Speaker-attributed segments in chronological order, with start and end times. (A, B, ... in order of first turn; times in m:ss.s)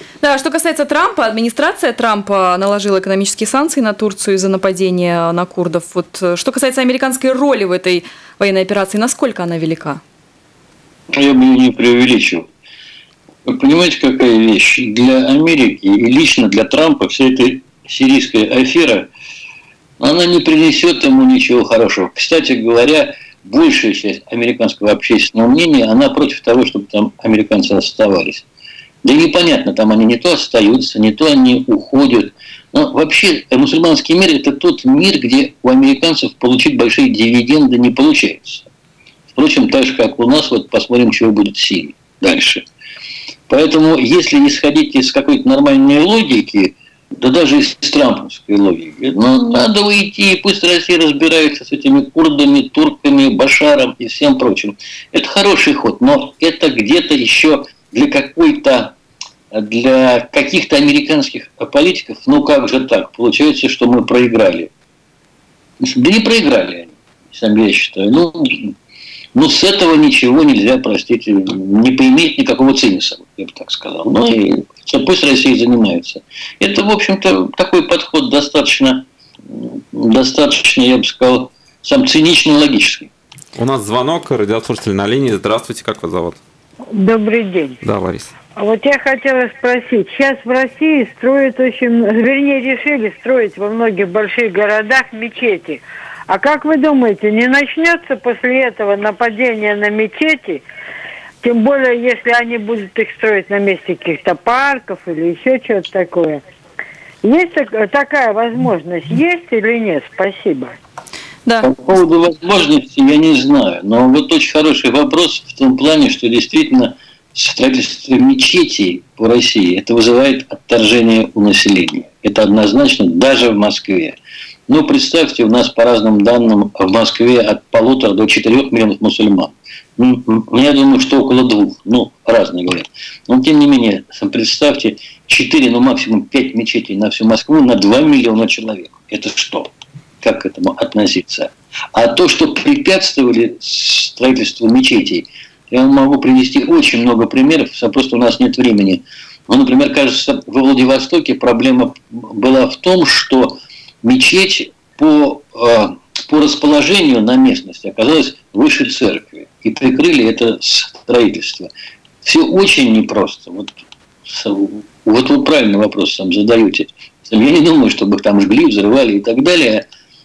0:00.2-0:10.0 A
0:11.1-0:12.5 B
0:13.5-0:19.1 B
0:20.0-0:28.4 B
0:29.0-0:38.7 B
0:39.3-0:42.6 B
0:43.5-0:59.0 B
0:59.5-1:04.7 B
1:05.8-1:08.7 B
1:09.4-1:23.1 B
1:23.6-1:26.4 C
1:26.9-1:27.8 D
1:27.8-1:28.3 C
1:28.6-1:40.6 D
1:41.4-1:46.4 D
1:47.2-1:50.8 D
1:51.6-2:04.2 B
2:04.7-2:41.7 B
2:42.2-2:49.8 B